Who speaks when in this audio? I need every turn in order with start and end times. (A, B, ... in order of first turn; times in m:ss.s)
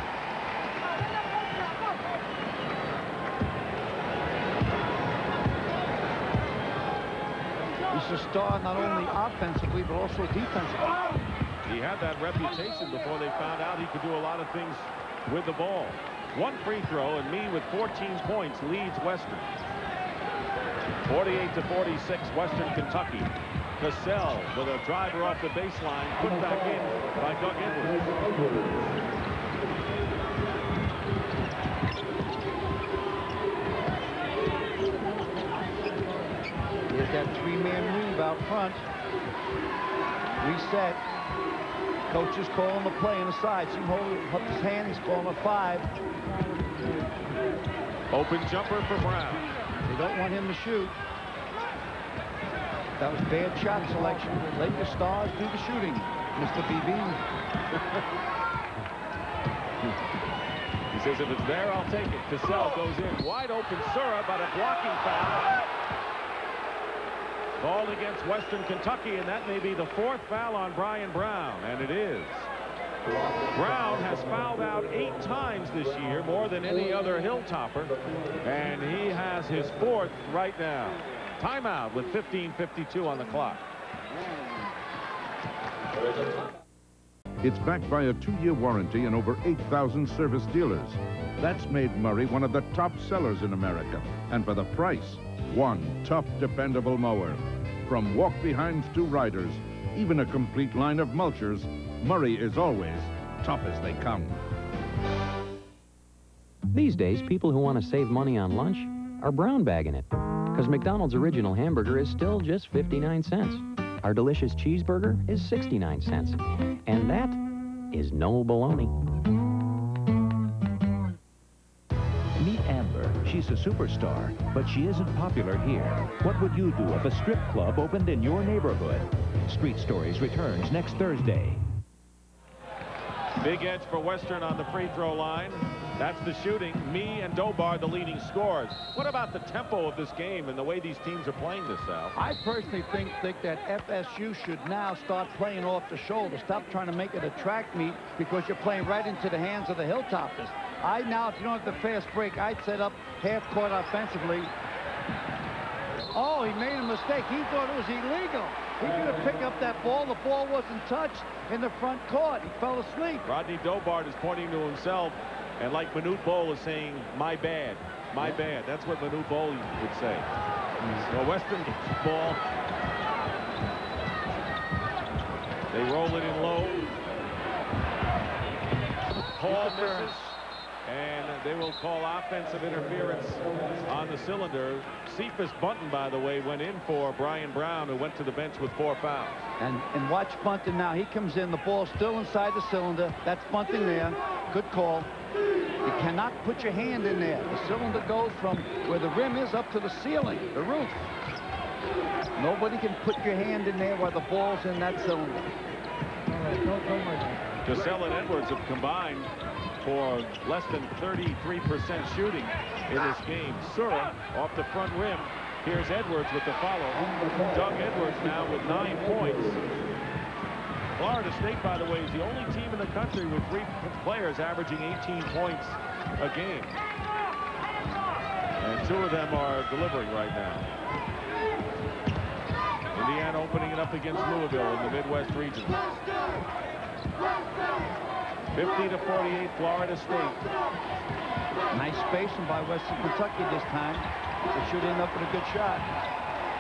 0:07.9-0:11.1 A
0:11.7-0:19.5 B
0:21.1-0:28.8 B
0:36.9-0:38.9 A
0:40.4-0:41.0 A
0:42.1-0:45.9 A
0:48.1-0:49.5 B
0:49.9-0:51.0 A
0:53.0-0:57.2 A
1:00.9-1:05.5 B
1:07.6-1:12.5 B
1:13.5-1:23.6 B
1:27.4-1:44.4 C
1:46.7-1:59.0 D
2:02.4-2:11.6 E
2:13.4-2:22.2 B
2:22.2-2:34.5 A
2:36.1-2:43.2 A
2:43.2-2:50.3 B
2:50.9-2:52.4 B
2:55.7-2:56.8 B
2:59.4-3:00.3 A
2:59.4-3:09.5 B
3:09.6-3:15.1 A
3:15.8-3:21.1 A
3:22.4-3:25.5 A
3:27.6-3:29.3 B
3:29.8-3:39.6 B
3:41.0-3:46.8 B
3:48.6-3:50.7 B
3:52.9-3:56.0 B
3:58.5-4:00.4 B
4:01.7-4:05.9 A